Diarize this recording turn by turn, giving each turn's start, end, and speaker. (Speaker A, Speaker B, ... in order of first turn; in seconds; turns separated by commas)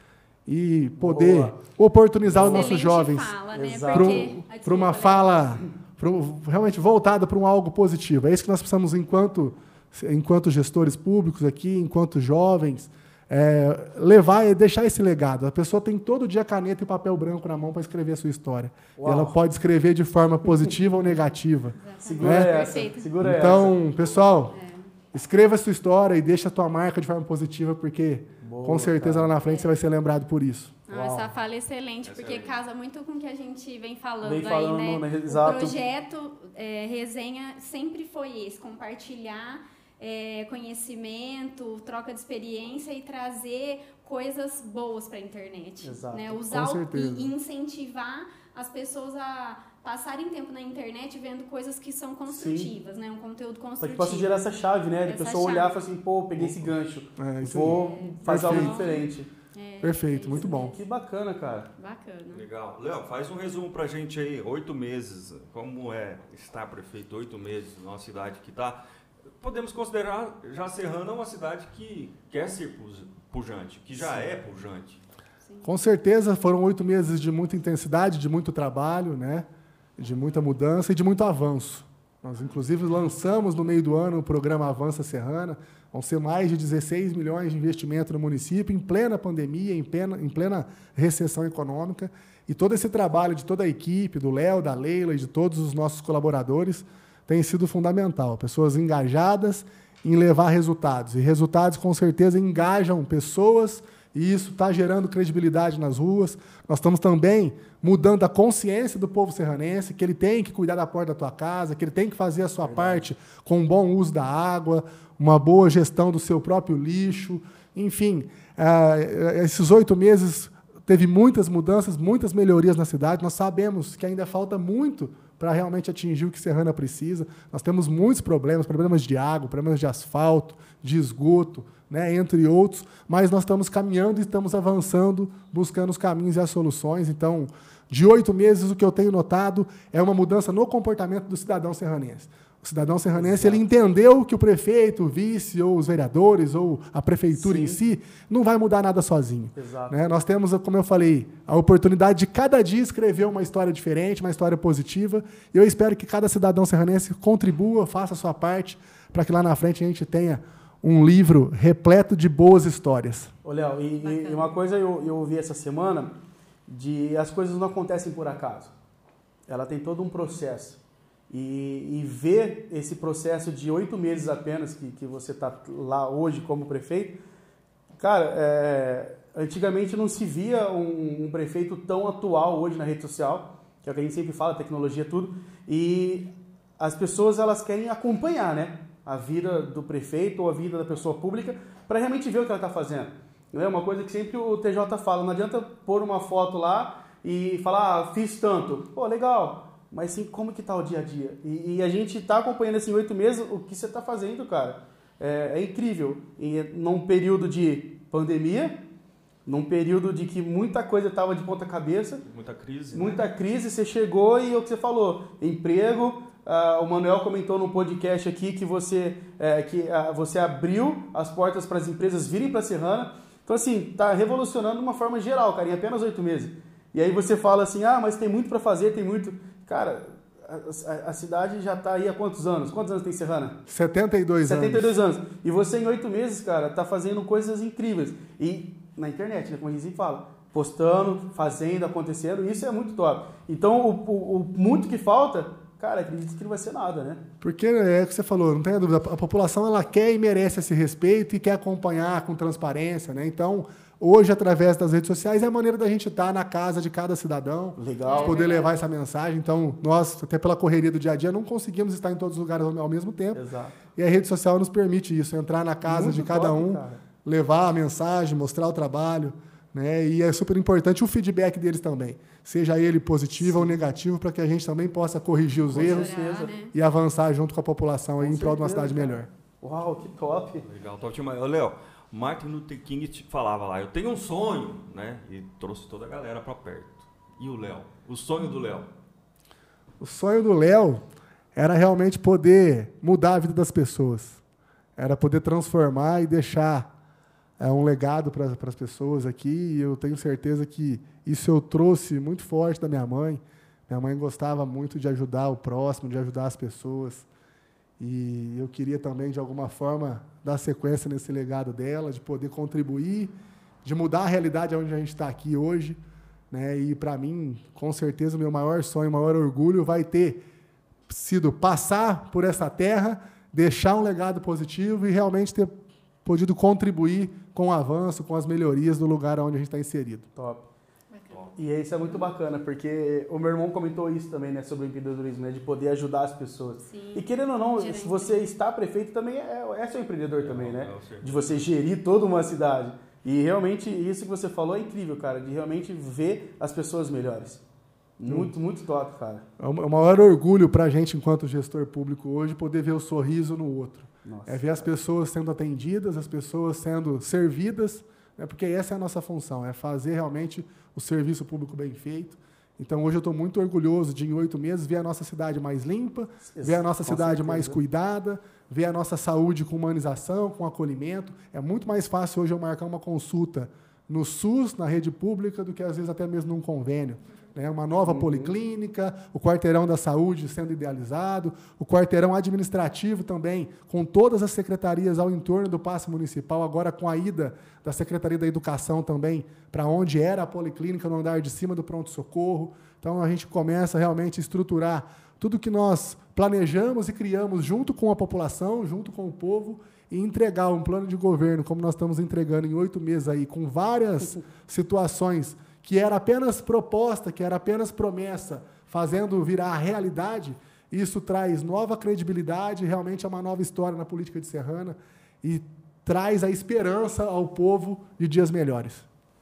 Speaker A: 0.5-3.3, Speaker B: 1.0-1.5, Speaker B: 2.2-2.7, Speaker C: 2.4-5.6, Speaker B: 3.5-4.4, Speaker A: 3.9-22.6, Speaker B: 18.9-19.4, Speaker C: 21.8-23.1, Speaker B: 22.0-23.8, Speaker A: 23.2-24.5, Speaker C: 24.5-24.9, Speaker A: 25.1-30.8, Speaker B: 28.4-29.3, Speaker C: 30.9-54.3, Speaker B: 30.9-31.3, Speaker D: 32.0-32.5, Speaker B: 34.2-35.8, Speaker B: 45.8-46.4, Speaker A: 46.5-47.3, Speaker B: 52.3-52.7, Speaker B: 53.8-59.3, Speaker C: 55.0-55.7, Speaker D: 56.4-56.7, Speaker A: 57.2-58.9, Speaker C: 57.7-60.8, Speaker A: 59.8-60.8, Speaker B: 60.5-61.7, Speaker C: 61.8-62.4, Speaker D: 62.3-68.8, Speaker D: 69.4-75.0, Speaker A: 75.6-79.5, Speaker A: 80.0-163.3, Speaker B: 112.6-113.1, Speaker B: 143.1-143.6, Speaker B: 147.3-147.8, Speaker B: 149.5-150.1, Speaker B: 163.4-166.2, Speaker C: 164.0-164.4, Speaker B: 166.7-168.7, Speaker B: 169.5-170.8, Speaker B: 171.3-177.2, Speaker B: 178.0-208.8, Speaker B: 209.4-212.2, Speaker D: 212.2-213.2, Speaker B: 212.9-233.6, Speaker A: 233.7-235.0, Speaker B: 234.4-247.2, Speaker A: 247.4-276.1, Speaker B: 257.8-258.6, Speaker C: 258.0-258.7, Speaker B: 263.3-263.8, Speaker B: 265.8-267.0, Speaker B: 273.4-273.7, Speaker B: 275.6-276.5, Speaker C: 275.7-276.7, Speaker A: 276.7-279.3, Speaker B: 278.2-280.7, Speaker D: 280.6-288.9, Speaker A: 290.0-291.0, Speaker A: 291.5-294.4, Speaker A: 295.0-296.9, Speaker A: 297.6-307.3, Speaker A: 308.0-316.0, Speaker A: 316.5-320.4, Speaker A: 321.1-330.3, Speaker B: 330.3-330.7, Speaker C: 331.1-332.2, Speaker B: 331.6-347.6, Speaker C: 336.9-338.4, Speaker D: 340.4-341.7, Speaker B: 348.2-349.4, Speaker A: 348.2-348.5, Speaker A: 349.6-419.0, Speaker B: 354.2-354.8, Speaker B: 366.5-367.8, Speaker B: 378.0-378.5